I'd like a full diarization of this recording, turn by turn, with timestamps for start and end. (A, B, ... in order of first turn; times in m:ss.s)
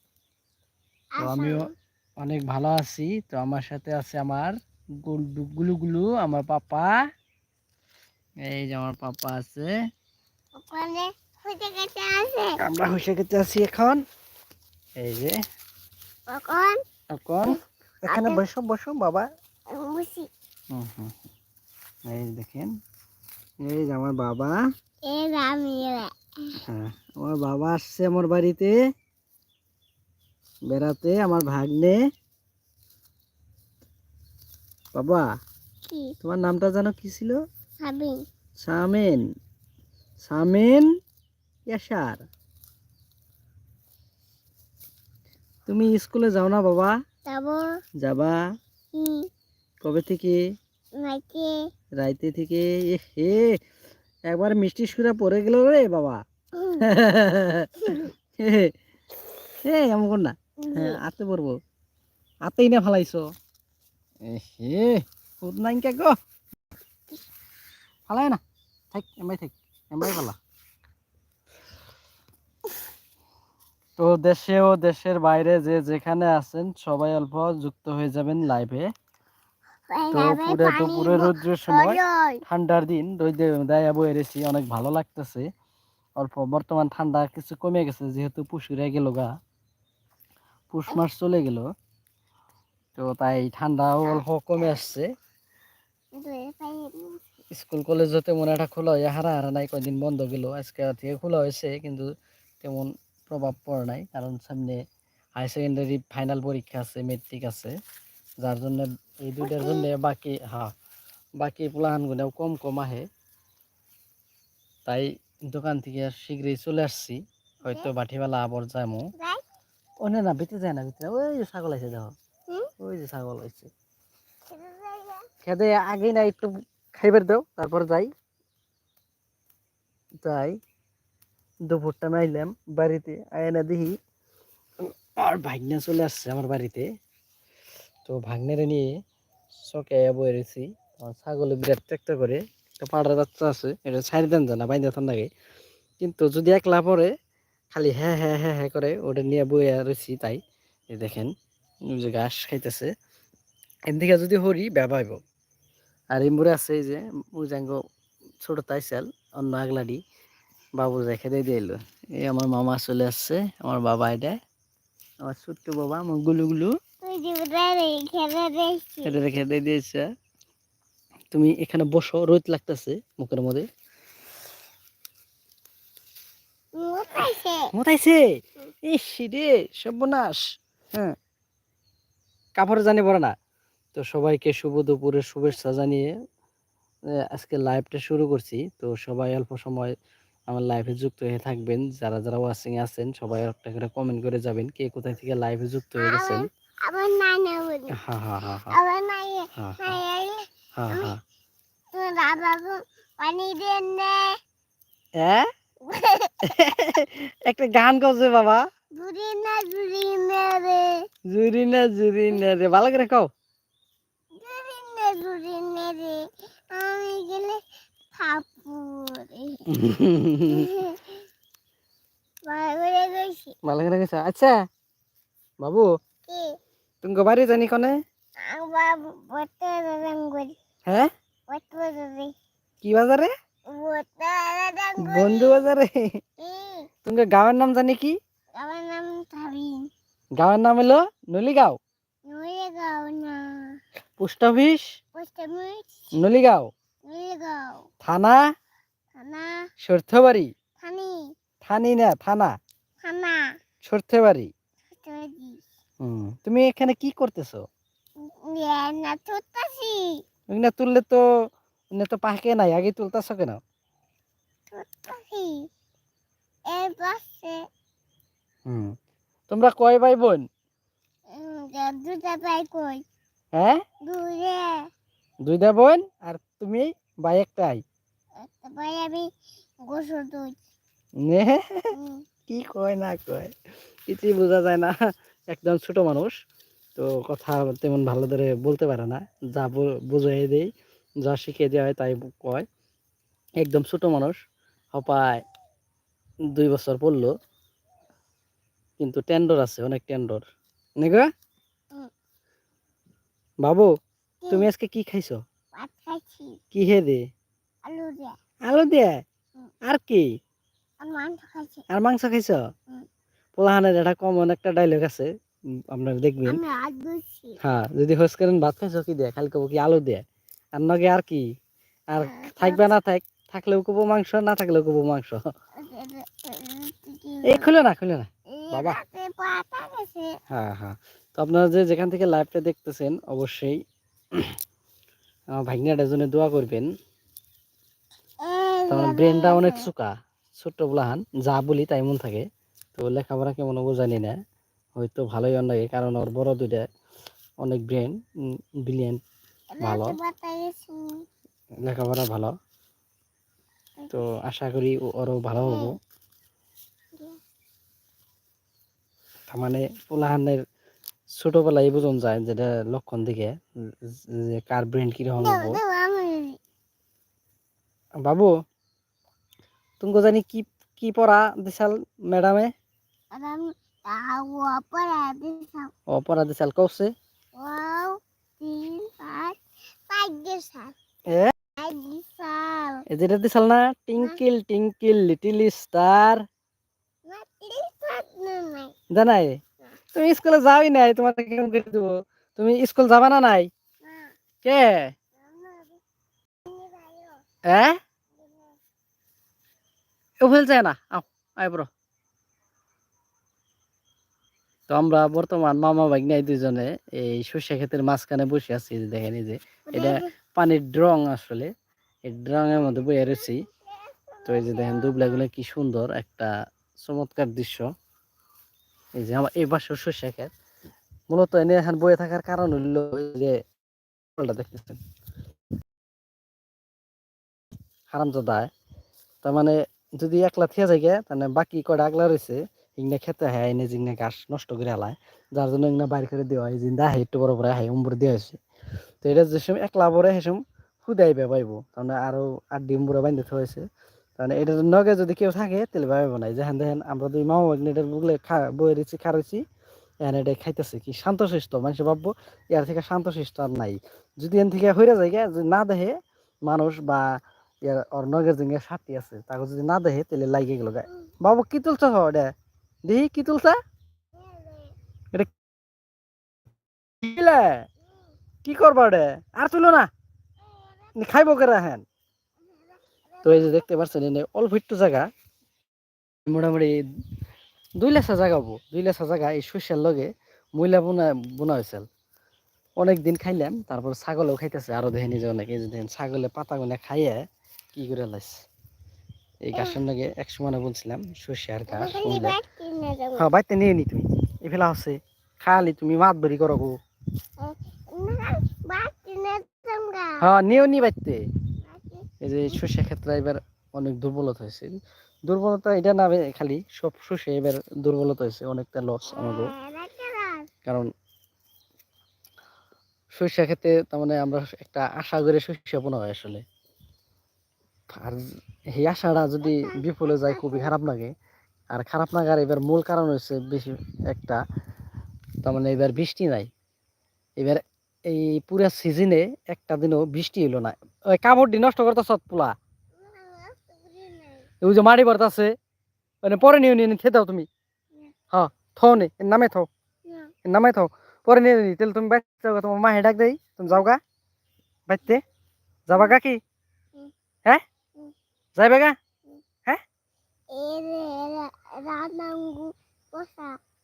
0:01.2-0:01.7 A
0:01.2-0:07.0 B
0:08.4-0:09.7 B
0:10.6-0:12.6 A
0:12.6-0:14.0 B
0:15.0-0:15.4 B
0:16.3-0:16.8 A
0:17.1-0:19.3 B
0:18.1-0:18.4 A
0:19.7-0:20.3 A
0:20.7-0:21.2 B
0:22.1-0:22.7 B
0:23.6-0:24.6 B
0:25.1-0:26.6 A
0:26.7-0:28.8 B
0:30.7-0:32.0 B
0:35.0-0:35.3 B
0:35.9-0:36.2 A
0:36.2-0:37.4 B
0:37.8-0:38.2 A
0:38.6-0:39.2 B
0:40.2-0:40.9 B
0:41.7-0:42.3 B
0:45.7-0:47.0 B
0:47.3-0:47.6 A
0:48.0-0:48.4 B
0:48.9-0:49.3 A
0:49.8-0:50.4 B
0:51.0-0:51.6 A
0:52.0-0:53.6 B
0:54.3-0:56.2 B
0:56.6-0:56.8 A
0:56.8-0:58.7 B
0:59.6-1:01.6 B
1:00.6-1:01.0 A
1:02.5-1:03.3 B
1:04.2-1:06.2 B
1:08.1-1:08.4 B
1:08.9-1:10.4 B
1:14.0-1:18.9 B
1:19.9-1:22.4 A
1:20.1-1:25.5 B
1:26.2-1:29.3 B
1:30.7-1:31.6 B
1:33.0-1:35.1 B
1:36.2-1:37.2 A
1:37.5-1:42.1 B
1:42.6-1:44.8 B
1:45.4-1:47.7 B
1:48.4-1:50.7 B
1:49.4-1:49.9 A
1:51.4-1:53.1 B
1:54.9-1:59.1 B
1:59.2-1:59.4 A
2:00.0-2:02.1 B
2:02.8-2:03.7 B
2:04.5-2:05.3 A
2:05.4-2:08.1 B
2:10.2-2:10.6 B
2:11.7-2:14.0 B
2:14.8-2:16.9 B
2:18.1-2:18.9 B
2:19.6-2:25.3 B
2:26.0-2:27.1 B
2:27.7-2:30.4 B
2:30.9-2:31.3 B
2:32.0-2:32.9 B
2:33.9-2:35.2 B
2:36.1-2:37.8 B
2:38.4-2:40.0 B
2:40.8-2:44.4 B
2:45.2-2:46.8 B
2:47.0-2:49.2 A
2:49.0-2:50.0 B
2:51.3-2:53.6 B
2:56.8-2:57.7 A
2:57.7-2:58.2 B
2:58.9-3:00.4 B
3:02.6-3:03.4 B
3:04.0-3:06.1 B
3:07.2-3:09.9 B
3:10.5-3:16.5 B
3:16.0-3:18.0 A
3:17.9-3:18.8 B
3:18.7-3:21.1 A
3:19.6-3:20.0 B
3:20.8-3:21.2 B
3:21.9-3:24.3 A
3:25.2-3:25.5 B
3:25.8-3:26.4 A
3:26.5-3:28.6 B
3:29.0-3:30.9 A
3:31.3-3:33.3 B
3:34.4-3:37.6 A
3:38.1-3:39.6 A
3:39.7-3:40.7 B
3:40.5-3:41.2 A
3:42.4-3:43.5 A
3:43.6-3:44.5 B
3:45.6-3:45.9 B
3:46.3-3:46.6 A
3:47.0-3:48.0 B
3:48.4-3:50.6 A
3:51.5-3:52.3 A
3:52.8-3:53.3 B
3:53.7-3:55.7 A
3:55.0-3:56.0 B
3:56.4-3:56.9 A
3:57.0-3:58.2 B
3:58.6-3:59.9 A
4:00.4-4:01.8 B
4:02.3-4:03.8 A
4:04.2-4:04.9 B
4:05.2-4:06.1 A
4:06.1-4:06.7 B
4:07.0-4:07.9 A
4:08.0-4:08.4 B
4:09.2-4:09.7 A
4:09.8-4:10.5 B
4:10.8-4:11.3 A
4:11.6-4:12.6 B
4:13.0-4:13.6 A
4:13.8-4:14.5 B
4:14.9-4:15.6 A
4:16.0-4:17.6 B
4:18.2-4:20.2 A
4:20.5-4:21.2 B
4:21.9-4:23.6 B
4:24.7-4:25.7 A
4:26.7-4:27.6 A
4:28.7-4:28.9 B
4:29.5-4:30.4 B
4:31.3-4:33.0 A
4:33.5-4:33.8 B
4:34.0-4:34.9 A
4:35.4-4:37.8 B
4:38.4-4:39.3 A
4:39.9-4:40.6 A
4:41.2-4:41.9 B
4:41.9-4:42.2 A
4:42.5-4:43.5 B
4:44.1-4:45.0 B
4:45.5-4:46.3 B
4:47.0-4:50.7 B
4:51.2-4:52.7 B
4:53.6-4:54.4 B
4:54.9-4:55.4 B
4:56.6-4:57.3 B
4:59.0-5:00.4 B
5:01.0-5:01.3 B
5:03.6-5:03.9 B
5:04.5-5:05.4 B
5:05.8-5:06.6 A
5:06.7-5:07.2 B
5:07.9-5:08.3 A
5:08.7-5:09.1 B
5:09.9-5:10.2 B
5:11.0-5:11.8 A
5:11.9-5:12.6 B
5:13.6-5:15.3 B
5:15.9-5:16.6 B
5:16.5-5:17.6 A
5:17.6-5:20.2 B
5:20.8-5:21.4 B
5:22.1-5:25.4 B
5:22.2-5:22.9 A
5:25.8-5:27.7 A
5:27.5-5:29.0 B
5:28.5-5:30.4 A
5:30.5-5:33.8 B
5:35.6-5:36.9 B
5:38.4-5:39.8 A
5:38.9-5:42.4 B
5:43.0-5:44.4 B
5:45.0-5:46.8 B
5:47.6-5:48.1 B
5:48.8-5:49.2 B
5:49.8-5:51.2 A
5:49.8-5:50.2 B
5:51.8-5:52.6 B
5:54.0-5:54.2 A
5:54.1-5:55.9 B
5:55.6-5:55.9 A
5:57.1-5:57.4 A
5:59.5-6:00.6 B
6:01.4-6:03.6 B
6:04.3-6:05.8 B
6:05.4-6:06.6 A
6:08.2-6:08.5 B
6:10.0-6:12.7 B
6:13.3-6:15.9 A
6:16.1-6:17.1 B
6:17.6-6:21.0 A
6:21.3-6:21.5 B
6:21.8-6:23.0 A
6:23.1-6:26.4 B
6:27.3-6:28.9 A
6:29.1-6:29.6 B
6:30.2-6:33.7 B
6:34.0-6:34.3 A
6:34.6-6:35.1 B
6:35.4-6:36.0 A
6:36.7-6:37.4 A
6:37.7-6:38.0 B
6:38.4-6:38.8 A
6:40.4-6:41.9 B
6:44.9-6:51.7 B
6:49.9-6:50.3 A
6:52.3-6:53.6 B
6:52.9-6:55.4 A
6:54.4-6:57.9 B
6:59.2-7:00.5 B
7:01.3-7:03.6 B
7:04.4-7:05.0 B
7:08.1-7:08.7 B
7:09.4-7:18.6 B
7:19.2-7:23.8 B
7:24.4-7:29.6 B
7:30.2-7:42.5 B
7:43.1-7:43.8 B
7:44.4-7:45.0 A
7:47.2-7:47.8 B
7:48.6-7:50.1 B
7:50.6-7:51.2 A
7:51.2-7:52.0 B
7:52.7-7:53.9 A
7:53.4-7:55.3 B
7:56.5-7:57.0 B
7:58.0-8:02.0 B
8:03.0-8:07.4 B
8:08.0-8:08.6 B
8:09.6-8:12.6 B
8:11.9-8:13.4 A
8:13.4-8:16.9 B
8:17.6-8:20.4 A
8:20.4-8:21.4 B
8:21.8-8:22.8 A
8:22.4-8:24.9 B
8:25.5-8:29.7 B
8:29.3-8:30.7 A
8:33.3-8:36.6 B
8:38.1-8:41.3 B
8:39.6-8:40.9 A
8:41.9-8:44.6 B
8:45.6-8:46.7 B
8:47.6-8:52.7 B
8:53.2-8:54.7 A
8:54.8-8:55.7 B
8:56.4-8:57.7 B
8:58.5-8:59.9 B
9:00.3-9:00.5 A
9:00.7-9:04.2 B
9:05.1-9:05.4 B
9:06.1-9:06.6 B
9:08.8-9:09.2 B
9:10.7-9:13.8 A